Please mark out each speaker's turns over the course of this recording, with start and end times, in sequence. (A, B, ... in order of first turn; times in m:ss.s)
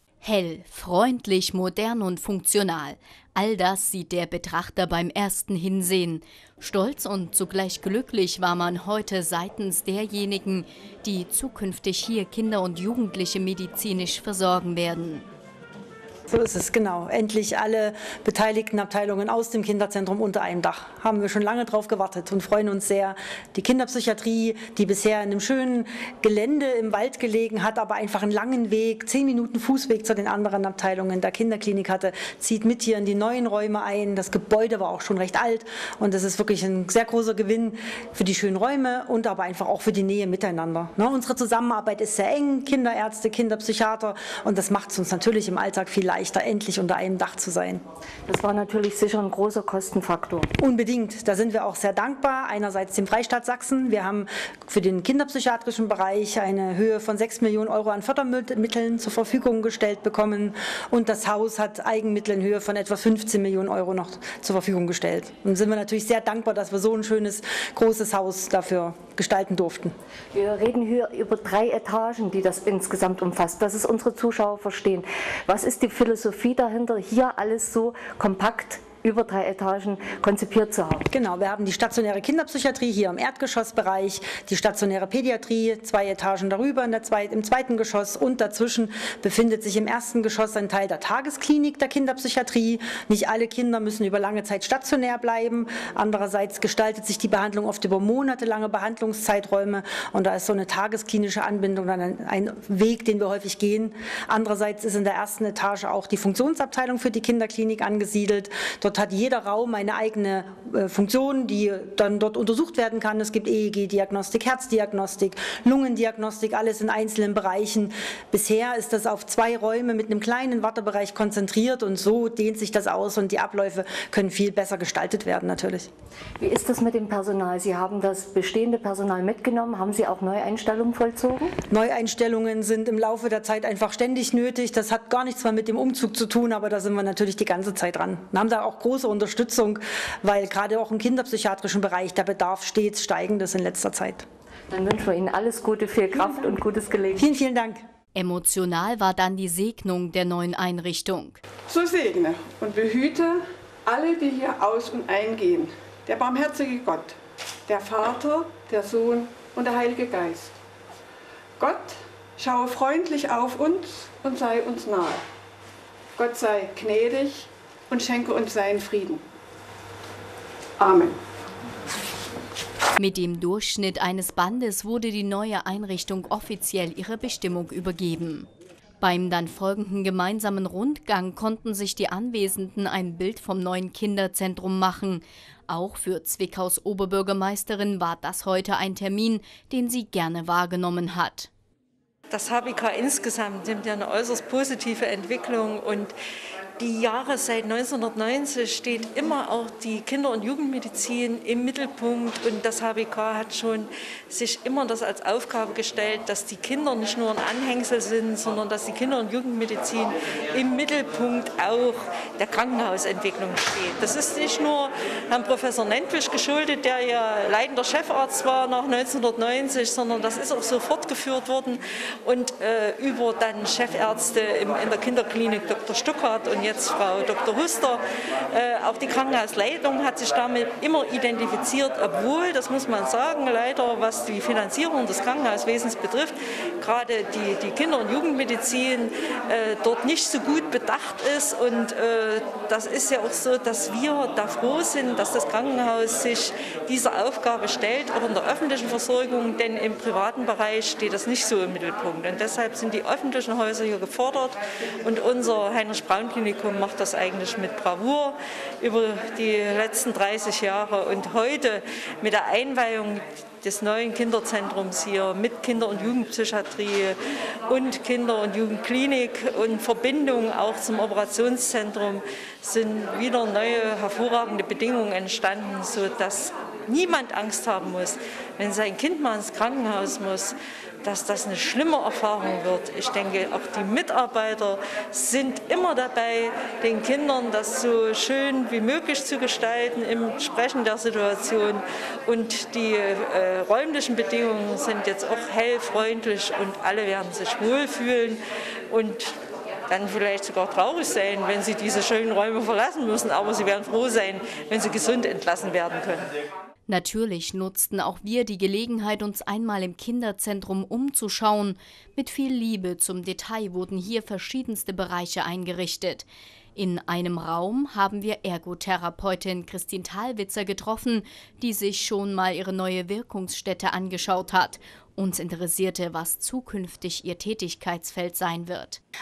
0:00.2-0:15.2 A
0:16.3-0:47.8 B
0:48.3-0:50.5 C
0:50.6-1:09.9 B
1:10.3-1:21.1 C
1:21.1-2:05.9 B
2:06.4-2:11.5 C
2:11.7-2:24.2 B
2:24.7-2:27.3 C
2:26.2-2:26.4 B
2:27.1-2:27.8 B
2:28.1-2:31.4 A
2:31.7-2:40.5 D
2:41.6-2:45.2 D
2:46.2-2:49.2 D
2:50.8-2:51.2 D
2:53.0-2:58.5 A
2:59.0-3:11.5 A
3:12.3-3:16.1 E
3:16.8-4:27.2 E
4:27.7-4:59.3 E
4:59.9-5:06.3 E
5:06.9-5:16.2 A
5:16.8-5:29.0 A